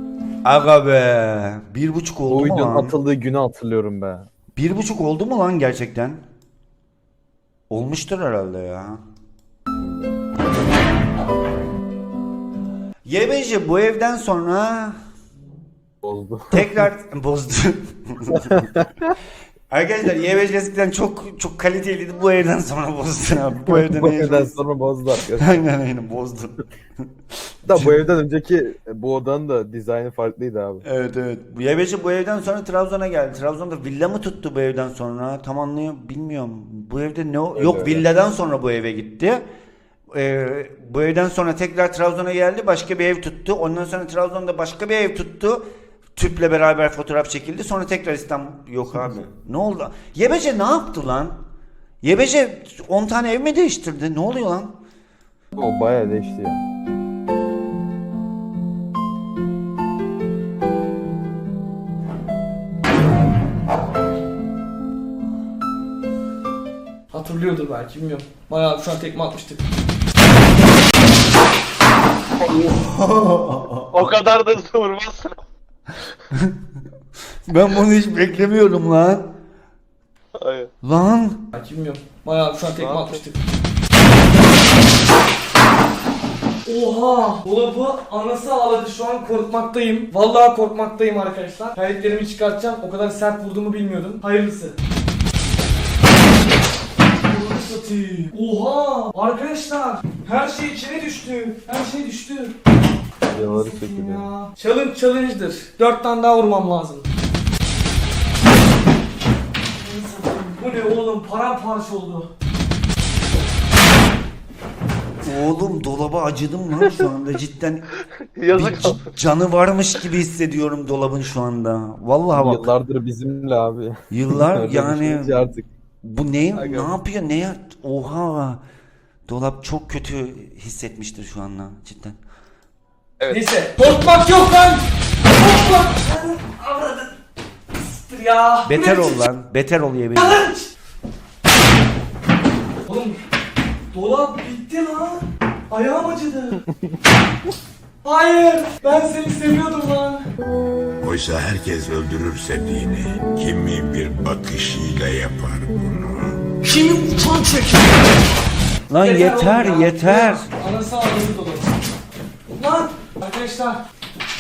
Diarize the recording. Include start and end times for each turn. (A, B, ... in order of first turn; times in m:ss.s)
0:00.4-0:03.0 A
0:02.3-0:04.3 B
0:04.6-0:06.2 A
0:07.7-0:09.0 A
0:13.0-0:15.0 A
0:16.0-0:16.7 B
0:16.5-0:18.7 A
0:19.7-0:24.5 A
0:23.7-0:25.6 B
0:25.4-0:26.5 A
0:27.7-0:30.8 B
0:27.7-0:28.0 A
0:30.8-0:39.4 A
0:37.6-0:38.0 B
0:40.1-0:51.4 A
0:52.0-0:54.8 A
0:55.6-0:56.6 B
1:07.1-1:09.6 C
1:12.5-1:14.0 A
1:13.9-1:15.4 D
1:17.5-1:19.3 A
1:20.4-1:20.7 D
1:20.8-1:21.4 A
1:21.5-1:23.4 C
1:22.8-1:23.2 D
1:26.7-1:34.8 C
1:37.2-1:42.6 C
1:43.3-1:44.2 B
1:43.3-1:47.1 C
1:49.8-1:52.3 C
1:55.2-1:57.8 A
1:58.4-1:59.1 D
1:58.5-2:02.7 A
2:02.3-2:05.7 B
2:04.1-2:05.4 A
2:06.0-2:08.6 A
2:06.6-2:06.9 D
2:09.3-2:12.2 A
2:13.3-2:17.2 C
2:17.8-2:19.2 C
2:18.7-2:20.4 A
2:20.2-2:20.7 C
2:22.9-2:23.2 C
2:23.9-2:26.6 C
2:28.0-2:30.3 C
2:31.0-2:36.4 E
2:36.6-2:38.0 C
2:38.9-2:40.5 A
2:39.0-2:41.7 C
2:42.5-2:43.8 C